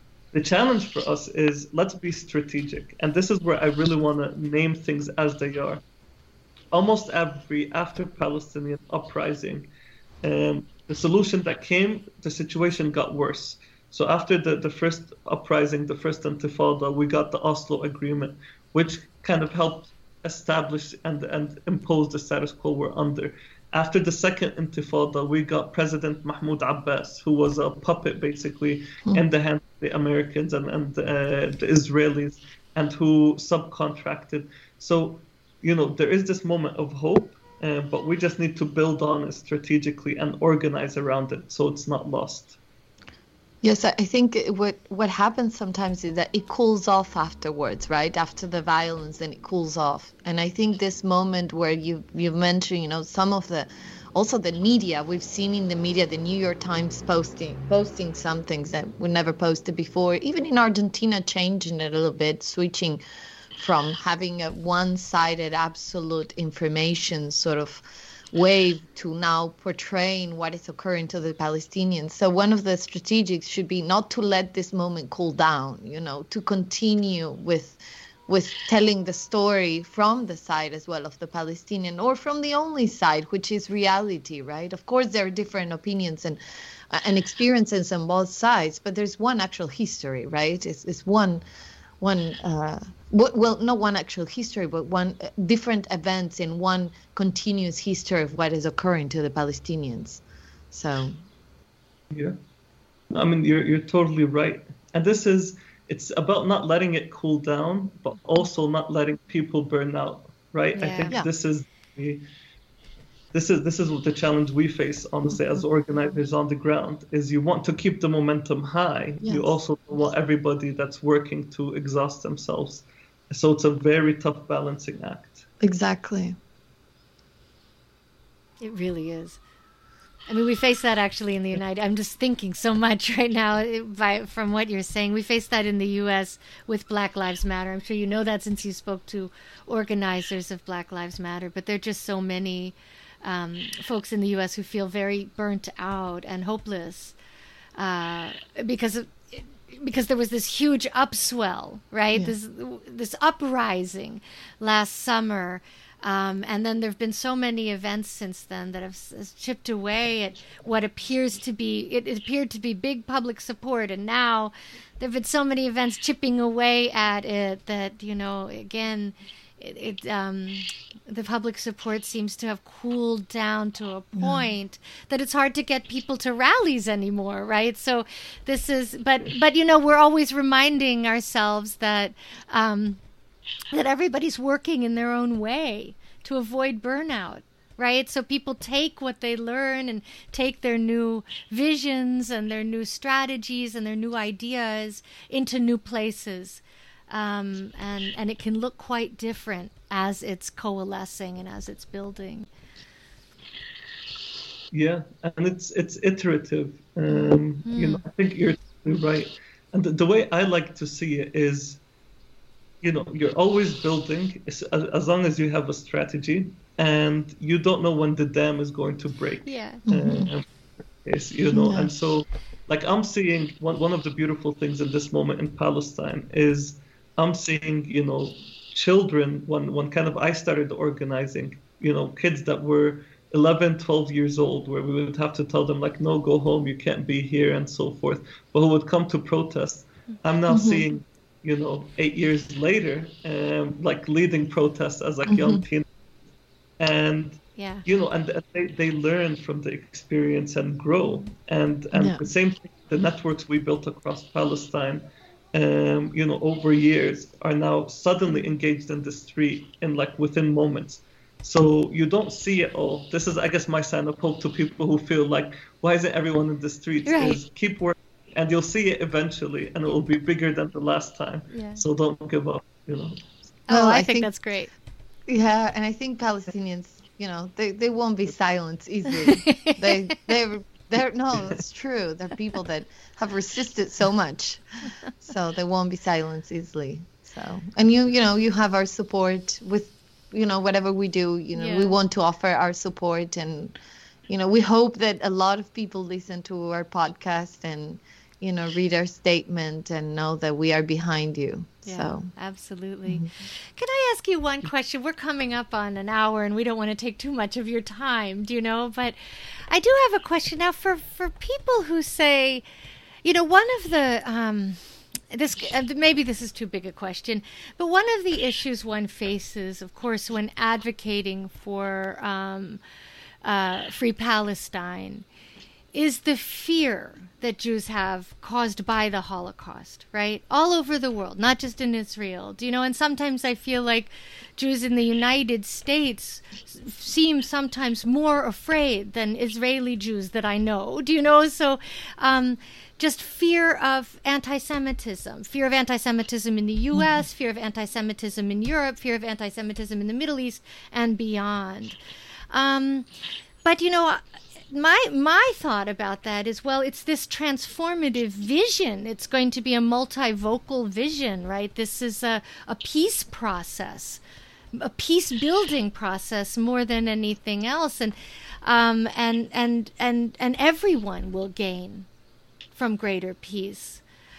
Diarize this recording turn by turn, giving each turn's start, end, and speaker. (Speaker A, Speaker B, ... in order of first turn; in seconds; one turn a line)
Speaker A: 0.3-5.8
Speaker A: 6.7-9.7
Speaker A: 10.2-42.6
Speaker B: 43.6-63.0
Speaker B: 63.5-86.4
Speaker B: 86.9-91.4
Speaker B: 92.0-101.2
Speaker A: 102.1-102.4
Speaker A: 103.1-112.2
Speaker C: 110.8-111.2
Speaker A: 113.3-125.5
Speaker B: 119.2-119.6
Speaker B: 125.6-126.4
Speaker C: 128.6-129.4
Speaker C: 130.3-147.2
Speaker C: 147.8-183.0
Speaker B: 174.2-174.5
Speaker C: 183.7-202.5
Speaker A: 204.7-211.8
Speaker C: 207.7-208.0
Speaker A: 212.8-220.4
Speaker C: 219.5-219.9
Speaker B: 219.9-220.3
Speaker A: 221.0-245.9
Speaker B: 221.5-221.9
Speaker B: 240.5-240.9
Speaker B: 245.3-245.6
Speaker A: 246.8-273.3
Speaker C: 247.6-247.8
Speaker B: 251.9-252.2
Speaker C: 267.1-267.4
Speaker C: 271.5-271.8
Speaker C: 273.7-274.7
Speaker B: 273.7-274.3
Speaker B: 275.3-293.8
Speaker C: 279.2-280.0
Speaker C: 291.6-291.9
Speaker B: 294.3-302.3
Speaker C: 301.9-309.2
Speaker C: 309.7-312.6
Speaker C: 313.2-322.8
Speaker C: 323.4-325.3
Speaker C: 325.9-352.0
Speaker C: 352.5-353.1
Speaker C: 353.6-364.2
Speaker C: 364.7-372.1
Speaker C: 372.7-374.0